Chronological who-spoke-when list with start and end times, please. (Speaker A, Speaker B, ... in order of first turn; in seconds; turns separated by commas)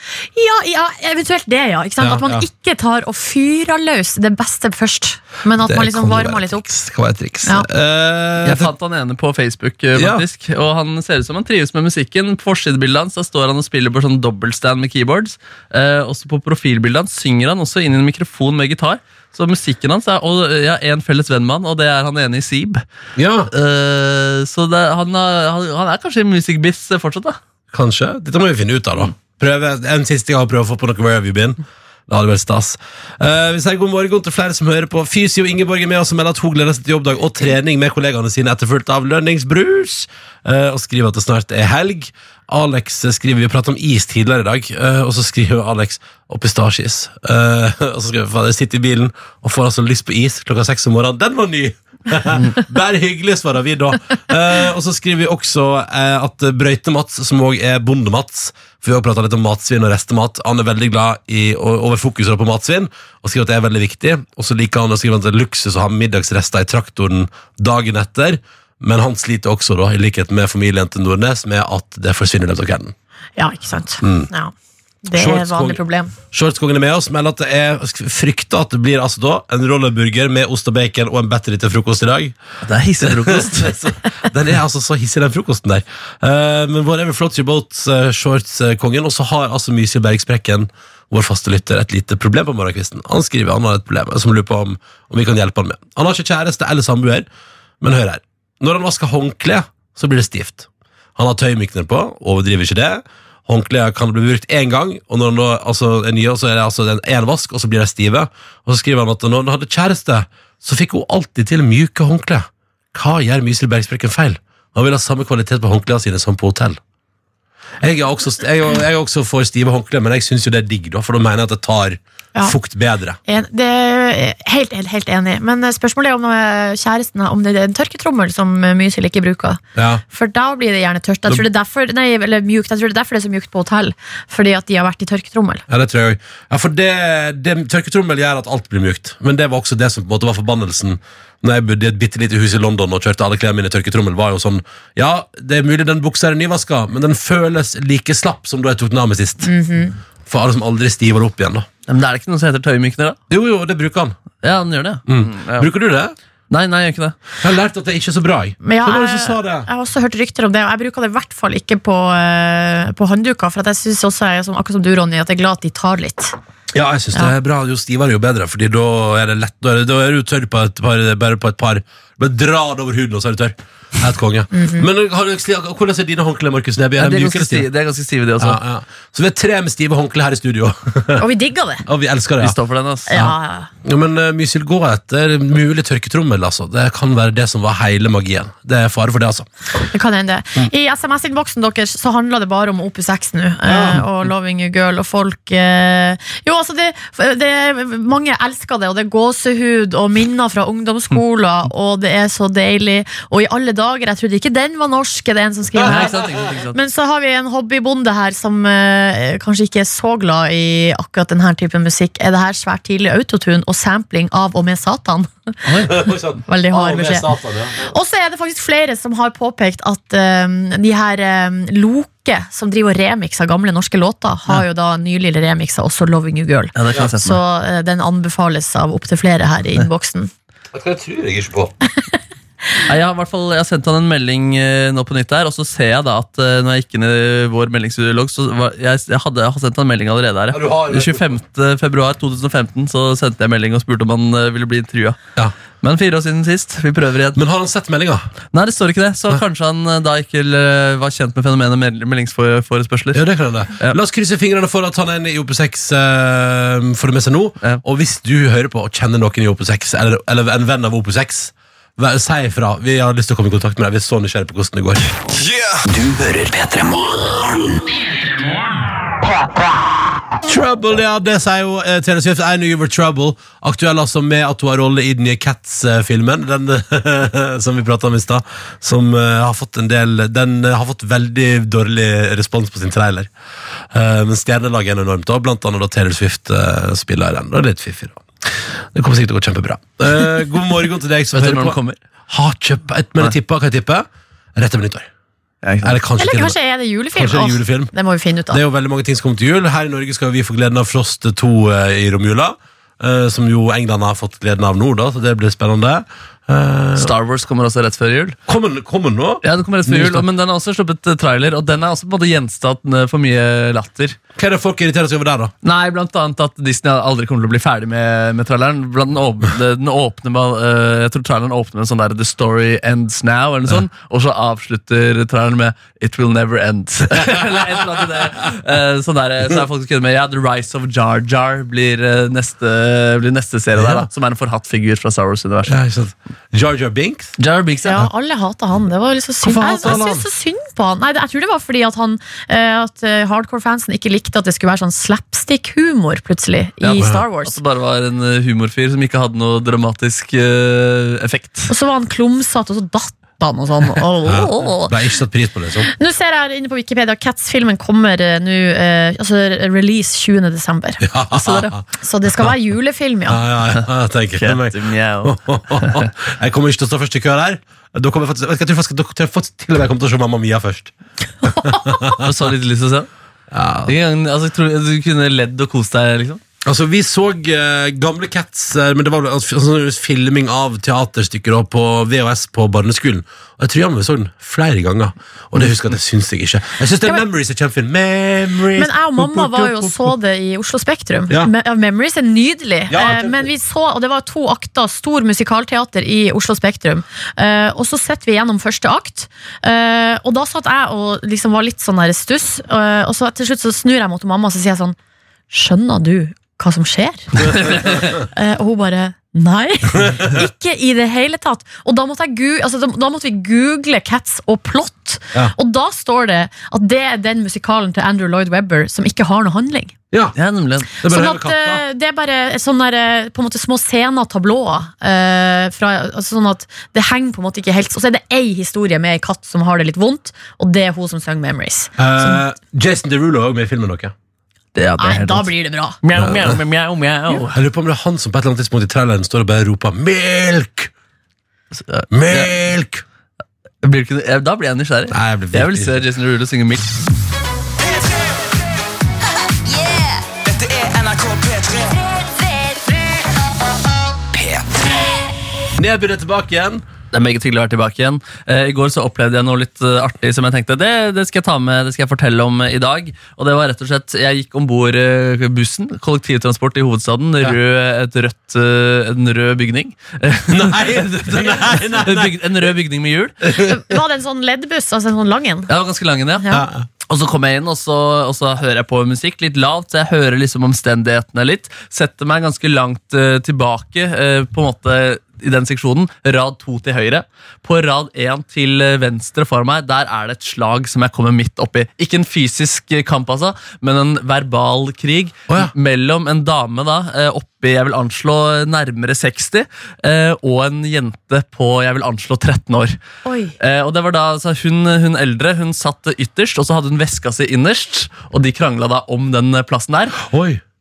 Speaker A: 0.3-6.6, Speaker B: 2.0-2.4, Speaker B: 5.6-8.7, Speaker C: 8.4-22.8, Speaker B: 9.9-10.2, Speaker B: 23.2-23.5, Speaker C: 23.5-27.4, Speaker B: 27.7-72.9, Speaker A: 73.4-74.5, Speaker B: 74.0-74.3, Speaker A: 75.0-76.1, Speaker B: 75.1-75.8, Speaker B: 76.3-82.3, Speaker C: 82.7-83.7, Speaker B: 83.0-97.3, Speaker B: 97.8-116.8, Speaker B: 117.8-123.2, Speaker A: 123.2-135.6, Speaker B: 129.8-130.0, Speaker B: 135.7-149.5, Speaker A: 149.4-149.9, Speaker B: 150.2-151.7, Speaker C: 151.9-153.2, Speaker B: 153.3-154.2, Speaker C: 154.4-155.7, Speaker B: 155.1-156.1, Speaker C: 156.5-157.2, Speaker B: 157.4-159.7, Speaker A: 158.6-166.3, Speaker B: 166.7-177.7, Speaker A: 174.5-174.9, Speaker C: 177.0-178.6, Speaker B: 178.4-181.2, Speaker A: 181.2-181.8, Speaker B: 181.9-182.6, Speaker C: 182.4-183.1, Speaker A: 183.1-183.7, Speaker B: 183.1-189.5, Speaker A: 189.9-206.1, Speaker B: 193.7-194.0, Speaker B: 205.8-206.2, Speaker C: 205.8-206.8, Speaker A: 206.7-215.6, Speaker C: 215.7-216.0, Speaker B: 215.9-217.9, Speaker A: 216.4-217.3, Speaker A: 217.8-230.3, Speaker C: 226.8-227.4, Speaker B: 226.9-227.2, Speaker B: 230.7-231.7, Speaker C: 232.9-245.2, Speaker B: 240.5-241.3, Speaker C: 245.8-247.4, Speaker B: 247.3-248.3, Speaker C: 248.5-253.2, Speaker B: 253.1-265.1, Speaker D: 265.3-267.8, Speaker B: 270.4-283.3, Speaker B: 283.9-291.8, Speaker C: 291.3-292.0, Speaker B: 292.3-295.1, Speaker C: 295.6-296.0, Speaker B: 295.8-296.6, Speaker A: 296.2-298.6, Speaker B: 297.1-297.9, Speaker B: 298.5-307.1, Speaker C: 307.0-308.4, Speaker B: 308.5-310.2, Speaker C: 309.4-314.2, Speaker B: 314.4-315.5, Speaker C: 315.6-335.8, Speaker B: 327.2-328.0, Speaker B: 333.7-334.1, Speaker B: 335.7-337.3, Speaker C: 337.4-338.0, Speaker A: 337.8-347.5, Speaker B: 339.4-340.2, Speaker C: 346.8-351.7, Speaker A: 351.7-354.9, Speaker B: 354.2-355.9, Speaker A: 355.9-363.4, Speaker B: 361.0-361.8, Speaker B: 363.3-370.9, Speaker C: 364.4-366.1, Speaker B: 371.4-372.3, Speaker A: 371.6-371.9, Speaker C: 372.2-373.1, Speaker B: 373.5-373.9, Speaker C: 373.9-376.4, Speaker B: 376.6-390.1, Speaker A: 388.8-404.9, Speaker B: 392.9-393.5, Speaker A: 405.5-407.8, Speaker B: 407.6-408.0, Speaker A: 408.3-419.9, Speaker B: 409.9-410.4, Speaker C: 420.4-420.9, Speaker B: 421.0-421.8, Speaker A: 421.1-432.4, Speaker B: 432.0-434.1, Speaker C: 434.7-435.5, Speaker A: 435.0-435.9, Speaker C: 436.0-437.6, Speaker B: 436.2-436.6, Speaker B: 437.3-440.9, Speaker C: 441.8-442.5, Speaker B: 442.1-443.0, Speaker C: 443.8-446.9, Speaker B: 445.1-446.0, Speaker E: 449.7-451.9, Speaker B: 455.8-456.8, Speaker C: 457.1-473.4, Speaker B: 470.5-472.7, Speaker B: 473.4-473.8, Speaker A: 473.5-475.7, Speaker C: 475.7-476.5, Speaker B: 476.5-476.9, Speaker C: 477.1-503.0, Speaker A: 503.2-503.5, Speaker C: 503.6-510.2, Speaker B: 510.2-510.6